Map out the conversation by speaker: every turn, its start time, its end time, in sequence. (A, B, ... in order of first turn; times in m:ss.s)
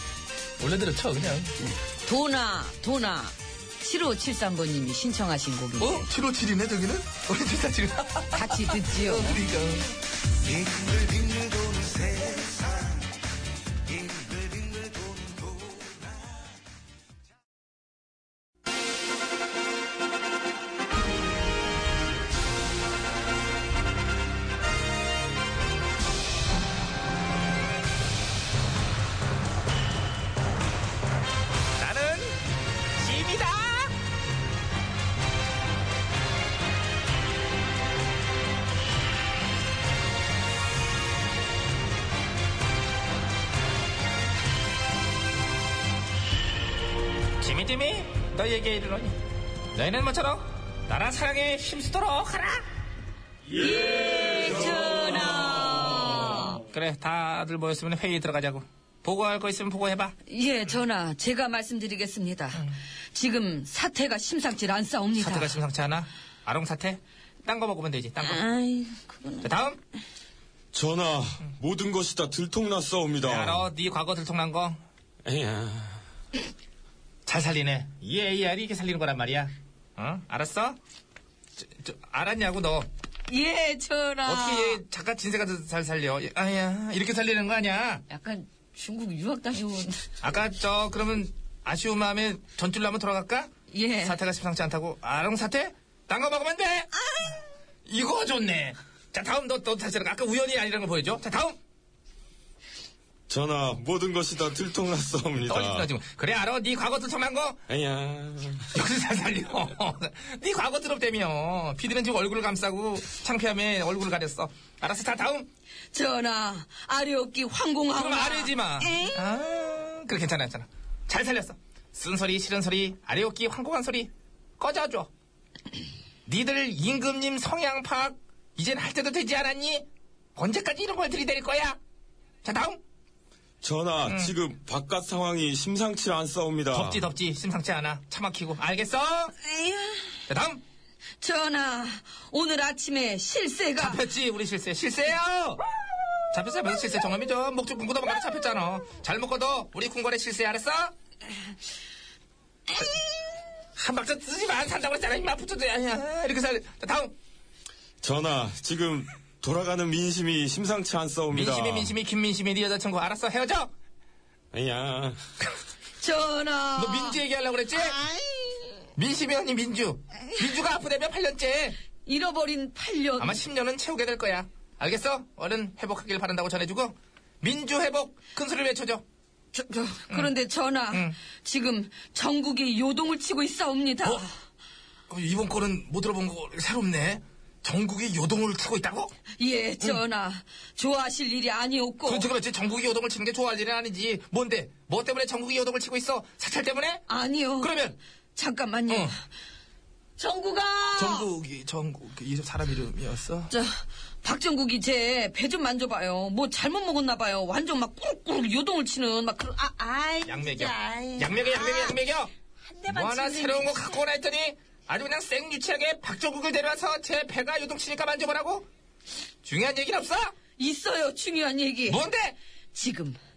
0:00.6-0:01.5 A
0:01.6-0:06.1 B
0:05.8-0:09.9 A
0:08.3-0:09.4 B
0:10.4-0:13.0 A
0:14.0-0:15.9 A
0:31.8-0:32.4 C
0:33.0-0:33.9 C
0:47.4-0:49.2 C
0:49.7-0:52.6 C
0:53.5-0:56.6 B
0:56.7-1:00.1 C
1:00.3-1:05.6 B
1:05.2-1:08.4 C
1:08.2-1:09.5 B
1:09.4-1:09.8 C
1:10.7-1:13.7 D
1:13.2-1:14.8 C
1:15.2-1:16.0 D
1:17.2-1:20.8 C
1:21.6-1:22.9 C
1:23.3-1:24.8 B
1:24.2-1:28.0 C
1:28.1-1:30.2 B
1:30.2-1:33.5 C
1:33.7-1:34.2 B
1:34.0-1:36.9 C
1:36.9-1:37.4 B
1:37.8-1:41.6 C
1:43.3-1:45.9 D
1:45.4-1:47.6 C
1:47.7-1:48.7 D
1:48.7-1:55.5 C
1:55.9-1:59.2 B
1:57.9-2:05.1 C
2:06.2-2:11.8 C
2:12.4-2:12.8 C
2:13.6-2:17.0 D
2:14.0-2:14.3 C
2:16.7-2:19.3 C
2:19.4-2:20.2 B
2:20.3-2:20.6 C
2:21.2-2:24.0 B
2:23.8-2:25.6 C
2:26.3-2:30.9 C
2:33.8-2:37.1 C
2:38.0-2:41.9 D
2:41.3-2:43.7 C
2:44.5-2:45.2 D
2:46.0-2:47.2 B
2:46.8-2:48.0 C
2:47.7-2:48.8 B
2:49.0-2:51.8 C
2:52.0-2:53.4 B
2:53.2-2:59.0 C
2:59.5-3:04.3 B
3:05.1-3:08.8 A
3:08.8-3:09.1 C
3:09.4-3:12.3 B
3:12.0-3:17.0 C
3:17.1-3:17.8 B
3:17.6-3:18.0 C
3:18.3-3:19.2 B
3:18.9-3:19.1 C
3:20.2-3:21.3 B
3:21.0-3:23.5 A
3:23.5-3:32.0 B
3:30.2-3:32.3 C
3:32.6-3:34.0 B
3:32.9-3:38.7 C
3:39.4-3:40.3 C
3:40.6-3:42.0 B
3:41.9-3:42.4 C
3:42.7-3:43.2 B